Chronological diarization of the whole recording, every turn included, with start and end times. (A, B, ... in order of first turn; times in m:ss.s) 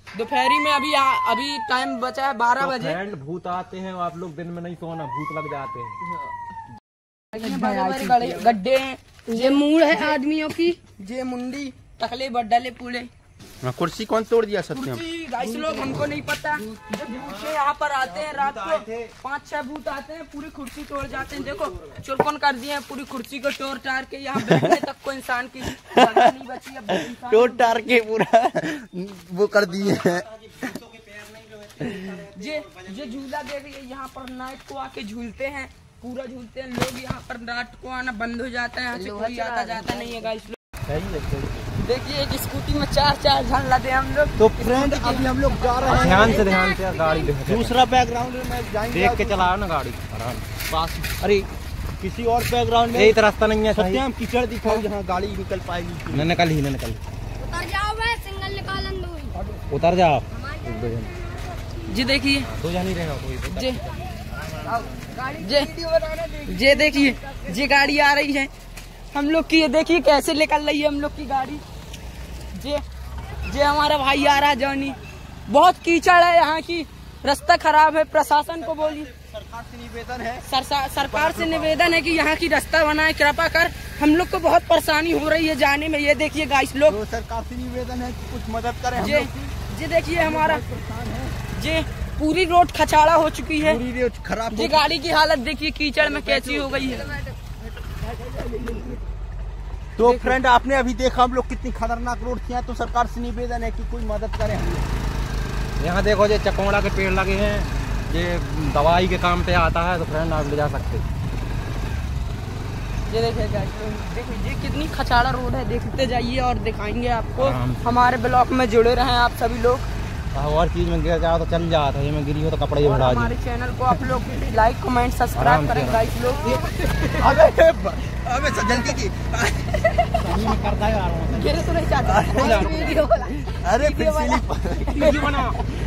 0:00.1-0:03.0 A
0:02.6-0:06.0 B
0:07.3-0:10.2 A
0:07.4-0:08.5 C
0:09.3-0:10.8 C
0:11.0-0:13.1 A
0:13.6-0:15.0 D
0:14.7-0:28.1 A
0:15.4-0:15.8 C
0:17.2-0:19.1 B
0:21.1-0:22.0 B
0:24.4-0:24.8 D
0:25.9-0:26.3 D
0:26.9-0:30.3 D
0:29.6-0:33.3 B
0:31.8-0:32.2 D
0:32.3-0:40.6 A
0:38.9-0:40.3 C
0:40.9-0:41.7 D
0:41.8-0:45.3 A
0:44.4-0:46.5 D
0:45.5-0:47.3 C
0:45.8-0:46.3 A
0:45.9-0:47.8 B
0:47.4-0:49.5 D
0:48.9-0:50.5 B
0:50.7-0:51.5 D
0:52.0-0:53.2 D
0:52.9-0:54.0 B
0:53.7-0:56.3 D
0:56.1-0:57.0 B
0:57.4-0:59.4 C
0:59.7-1:01.1 B
1:00.3-1:02.0 C
1:01.9-1:02.5 A
1:02.4-1:05.1 B
1:03.5-1:03.8 A
1:04.7-1:05.8 A
1:04.7-1:07.9 C
1:06.4-1:08.5 A
1:09.1-1:11.6 A
1:12.6-1:12.8 A
1:13.4-1:19.1 A
1:18.6-1:22.2 D
1:20.5-1:27.0 A
1:26.9-1:29.6 D
1:29.0-1:30.6 A
1:30.2-1:31.4 D
1:31.5-1:33.8 A
1:33.6-1:34.9 D
1:34.5-1:37.2 A
1:36.0-1:39.0 D
1:40.0-1:44.9 D
1:40.0-1:40.4 A
1:45.8-1:51.0 B
1:53.1-1:59.9 A
1:57.4-1:57.8 B
2:00.3-2:03.3 B
2:02.8-2:07.2 A
2:05.4-2:06.6 B
2:07.2-2:09.9 D
2:10.2-2:11.5 B
2:11.3-2:15.3 A
2:12.0-2:12.9 D
2:12.3-2:13.0 B
2:12.4-2:13.5 C
2:13.6-2:15.2 D
2:15.0-2:15.6 B